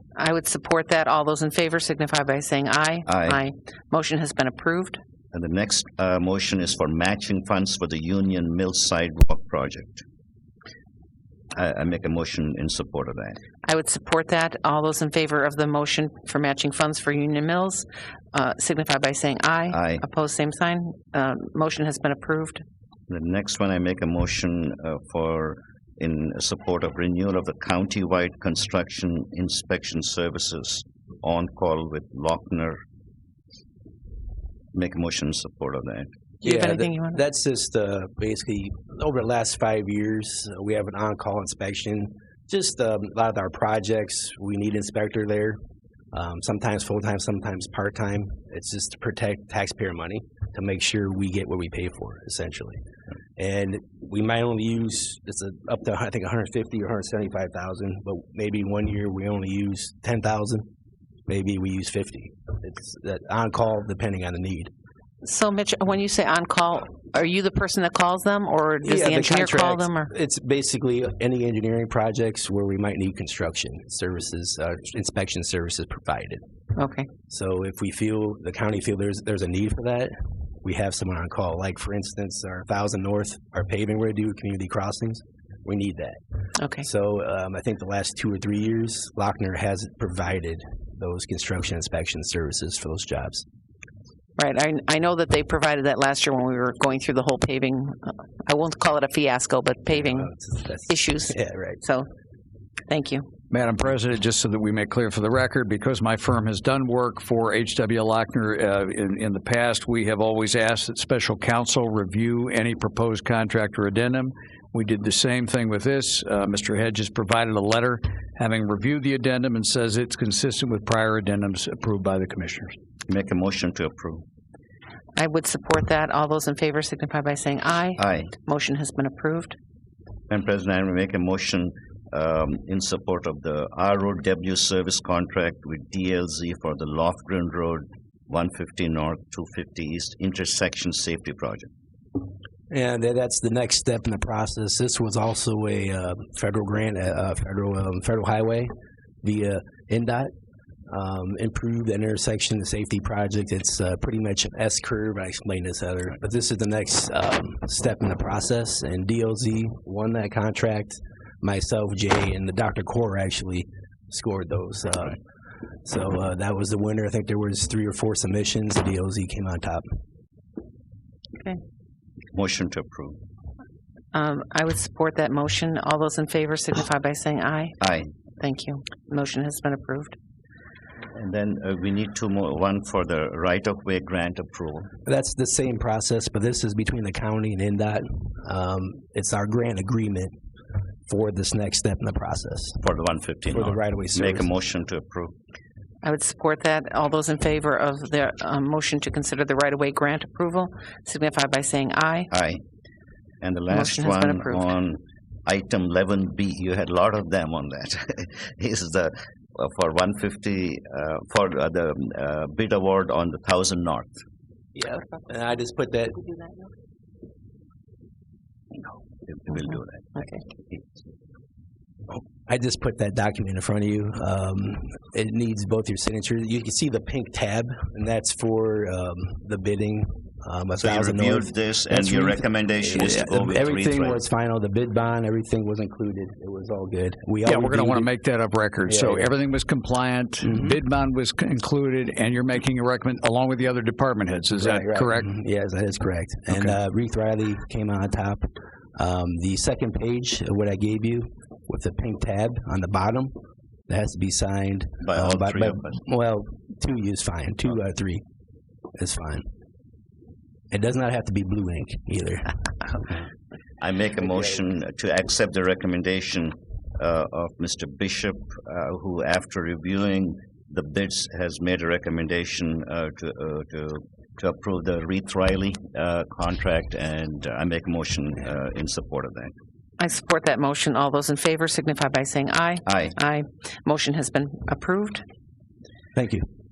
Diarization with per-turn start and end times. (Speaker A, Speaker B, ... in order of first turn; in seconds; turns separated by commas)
Speaker A: 0.1-5.0, Speaker B: 3.1-3.4, Speaker B: 5.3-10.0, Speaker B: 11.5-13.4, Speaker A: 13.6-22.6, Speaker B: 19.7-20.0, Speaker B: 23.1-32.8, Speaker B: 34.7-36.1, Speaker A: 36.4-37.2, Speaker C: 36.4-45.6, Speaker C: 46.1-52.8, Speaker C: 53.4-60.7, Speaker C: 61.3-64.7, Speaker A: 65.2-70.1, Speaker C: 68.8-76.4, Speaker A: 76.8-77.1, Speaker C: 77.3-86.2, Speaker A: 86.6-86.9, Speaker C: 86.8-93.5, Speaker A: 94.4-100.3, Speaker C: 100.0-101.8, Speaker A: 100.9-102.1, Speaker A: 102.9-103.3, Speaker D: 103.5-122.8, Speaker B: 123.1-124.2, Speaker A: 125.2-129.6, Speaker B: 128.0-128.3, Speaker B: 130.3-141.7, Speaker C: 142.7-148.7, Speaker C: 149.2-150.3, Speaker C: 150.9-165.2, Speaker C: 165.8-169.9, Speaker B: 172.3-173.2, Speaker A: 174.1-177.8, Speaker B: 177.8-178.1, Speaker A: 178.4-180.2, Speaker B: 181.1-184.9, Speaker C: 185.1-190.3, Speaker C: 191.1-192.8, Speaker B: 192.8-195.3, Speaker C: 193.5-194.5, Speaker A: 196.0-202.3, Speaker B: 202.3-202.6, Speaker B: 203.4-214.2, Speaker A: 203.7-204.7, Speaker C: 214.8-216.6, Speaker B: 219.3-221.0, Speaker C: 222.1-238.1, Speaker B: 230.8-234.2, Speaker D: 237.4-245.3, Speaker C: 238.9-239.3, Speaker C: 244.6-253.3, Speaker D: 246.5-246.8, Speaker C: 253.9-258.2, Speaker B: 255.0-256.0, Speaker C: 259.0-259.4, Speaker C: 260.7-262.6, Speaker B: 263.8-279.5, Speaker A: 280.0-285.2, Speaker B: 282.9-283.2, Speaker C: 286.1-286.4